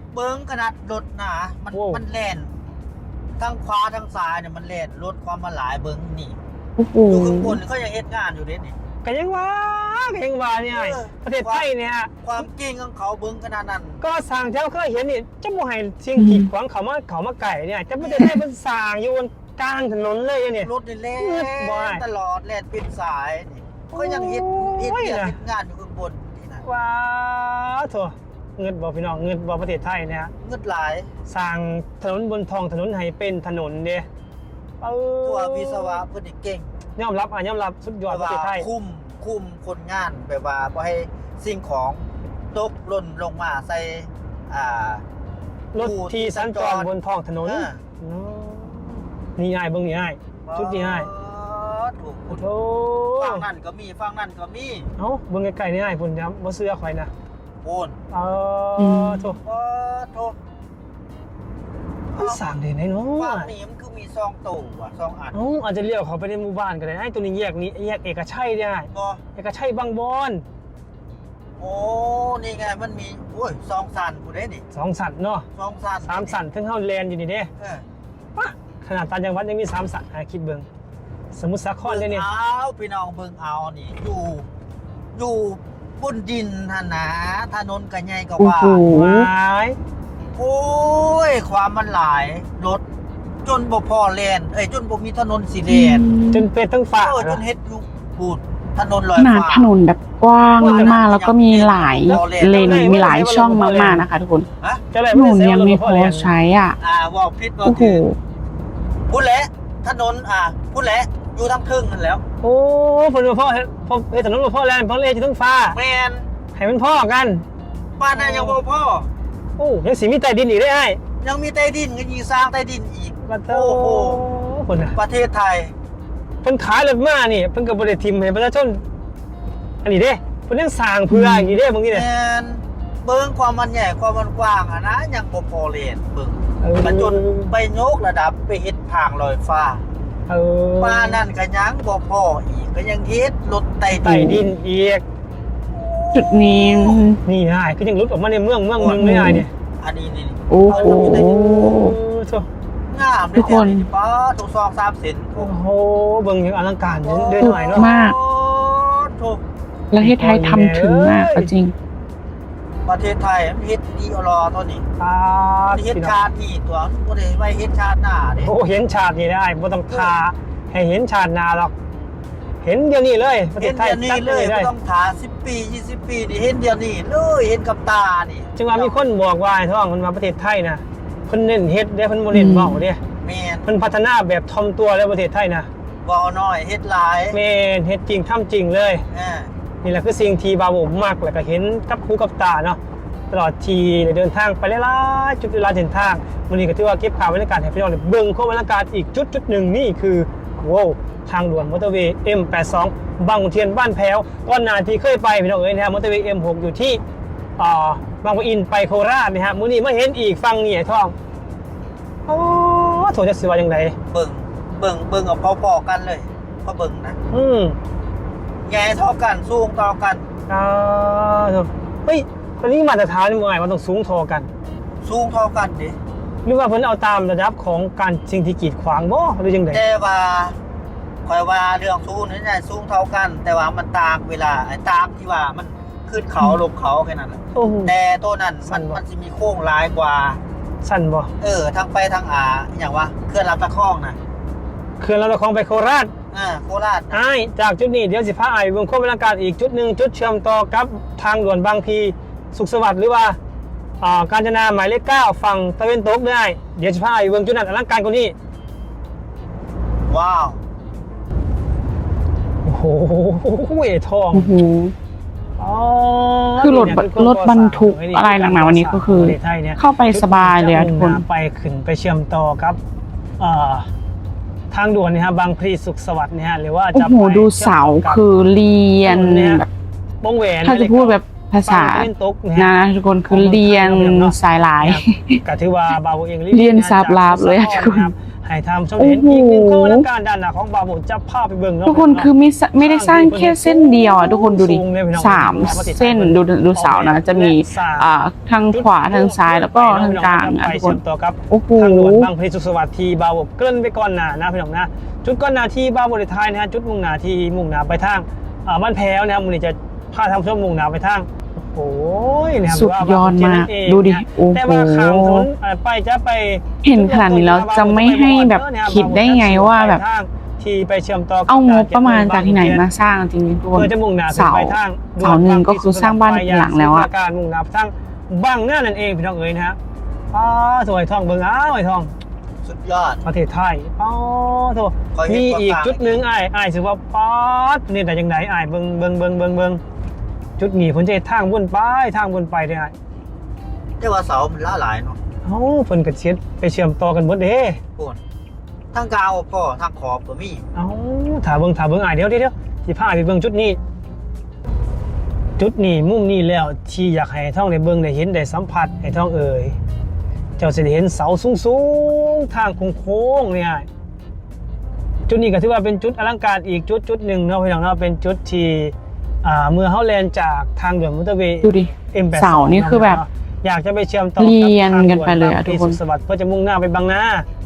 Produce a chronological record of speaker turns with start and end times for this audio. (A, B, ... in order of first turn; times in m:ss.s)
0:00.1-0:02.5 A
0:01.7-0:02.0 B
0:03.4-0:06.4 A
0:06.8-0:07.6 C
0:07.1-0:08.7 A
0:09.0-0:12.4 B
0:10.7-0:11.6 A
0:12.2-0:14.0 A
0:14.0-0:22.0 B
0:16.2-0:16.4 C
0:18.0-0:18.4 A
0:20.6-0:26.6 A
0:23.9-0:25.4 B
0:26.6-0:30.3 B
0:30.4-0:31.1 A
0:31.2-0:34.1 B
0:34.8-0:36.0 B
0:35.2-0:36.7 A
0:37.0-0:38.7 B
0:38.1-0:45.0 A
0:45.7-0:51.1 B
0:45.8-0:47.8 A
0:50.5-0:52.5 A
0:52.3-0:53.4 B
0:53.2-0:54.9 A
0:55.0-0:57.1 B
0:57.6-0:58.0 A
0:58.1-0:59.4 B
0:58.8-0:59.2 C
0:59.3-1:00.4 A
1:02.1-1:03.5 B
1:02.2-1:02.6 A
1:03.1-1:05.4 A
1:05.3-1:10.4 B
1:08.9-1:09.2 A
1:11.6-1:14.6 A
1:14.7-1:15.5 B
1:15.5-1:16.4 A
1:16.0-1:17.5 B
1:17.6-1:17.8 A
1:18.4-1:20.6 B
1:21.3-1:22.3 B
1:21.8-1:24.5 A
1:25.1-1:28.9 A
1:28.4-1:29.3 C
1:28.8-1:29.8 B
1:30.3-1:32.8 A
1:33.4-1:36.1 A
1:35.7-1:36.4 C
1:36.3-1:37.4 B
1:36.9-1:39.7 A
1:39.2-1:44.5 C
1:40.6-1:41.0 B
1:40.6-1:42.9 A
1:42.0-1:44.1 B
1:44.9-1:46.3 B
1:45.1-1:46.8 C
1:46.8-1:48.0 A
1:47.6-1:48.2 C
1:49.1-1:52.2 A
1:52.4-1:55.8 B
1:55.7-1:56.3 A
1:56.5-1:57.4 B
1:58.0-1:59.1 A
1:58.1-1:58.6 B
1:59.6-2:01.0 B
2:01.2-2:04.2 A
2:03.2-2:05.0 B
2:04.9-2:05.7 A
2:06.4-2:08.8 B
2:09.8-2:12.0 B
2:11.9-2:19.8 A
2:16.6-2:17.5 B
2:20.3-2:21.2 B
2:20.8-2:24.4 A
2:23.9-2:25.0 B
2:25.7-2:27.1 A
2:26.1-2:27.2 C
2:27.2-2:29.5 B
2:28.7-2:29.1 A
2:28.9-2:29.4 C
2:29.8-2:31.8 A
2:30.5-2:31.9 C
2:30.7-2:32.5 B
2:32.9-2:35.5 A
2:33.3-2:33.9 C
2:35.4-2:37.9 B
2:37.0-2:39.4 A
2:37.4-2:38.2 C
2:39.9-2:41.7 C
2:39.9-2:41.5 B
2:42.8-2:44.9 A
2:45.0-2:46.2 B
2:45.7-2:48.5 A
2:48.4-2:51.7 B
2:49.9-2:50.2 A
2:52.6-2:54.7 B
2:53.6-2:59.0 A
2:58.5-3:03.0 B
3:02.3-3:02.8 C
3:03.2-3:03.7 A
3:03.6-3:05.7 B
3:06.0-3:07.4 A
3:07.3-3:09.0 B
3:09.1-3:09.5 A
3:09.8-3:12.8 B
3:13.3-3:27.0 B
3:27.6-3:31.1 B
3:32.2-3:33.9 B
3:34.1-3:37.2 A
3:37.3-3:37.8 B
3:38.6-3:40.2 A
3:40.5-3:44.5 B
3:45.0-3:46.0 A
3:46.4-3:49.8 B
3:49.7-3:50.6 A
3:51.2-4:00.4 A
3:57.5-3:57.9 B
3:58.6-3:59.0 B
4:00.8-4:01.3 B
4:01.4-4:04.2 A
4:05.0-4:06.1 B
4:06.3-4:07.2 A
4:07.1-4:13.4 B
4:14.0-4:18.3 B
4:20.1-4:20.6 A
4:22.6-4:24.6 B
4:24.3-4:24.9 C
4:25.6-4:32.8 B
4:26.6-4:31.2 C
4:33.4-4:33.9 B
4:34.7-4:38.2 B
4:36.9-4:39.7 C
4:39.0-4:39.6 B
4:40.2-4:42.8 B
4:40.6-4:45.4 C
4:43.3-4:58.1 B
4:46.5-4:48.1 C
4:49.0-4:50.0 C
4:51.8-5:02.3 C
4:58.7-5:22.8 B
5:12.7-5:15.5 C
5:16.8-5:20.0 C
5:21.5-5:27.1 C
5:23.7-5:29.8 B
5:30.3-5:32.1 B
5:32.6-5:33.2 A
5:33.2-5:39.8 B
5:35.1-5:36.2 A
5:40.6-5:42.9 B
5:44.0-5:45.2 A
5:45.4-5:47.8 B
5:48.9-5:50.6 A
5:50.7-5:53.8 B
5:55.6-5:59.8 B
6:00.6-6:03.9 B
6:05.3-6:17.4 B
6:11.6-6:13.2 C
6:14.4-6:16.0 C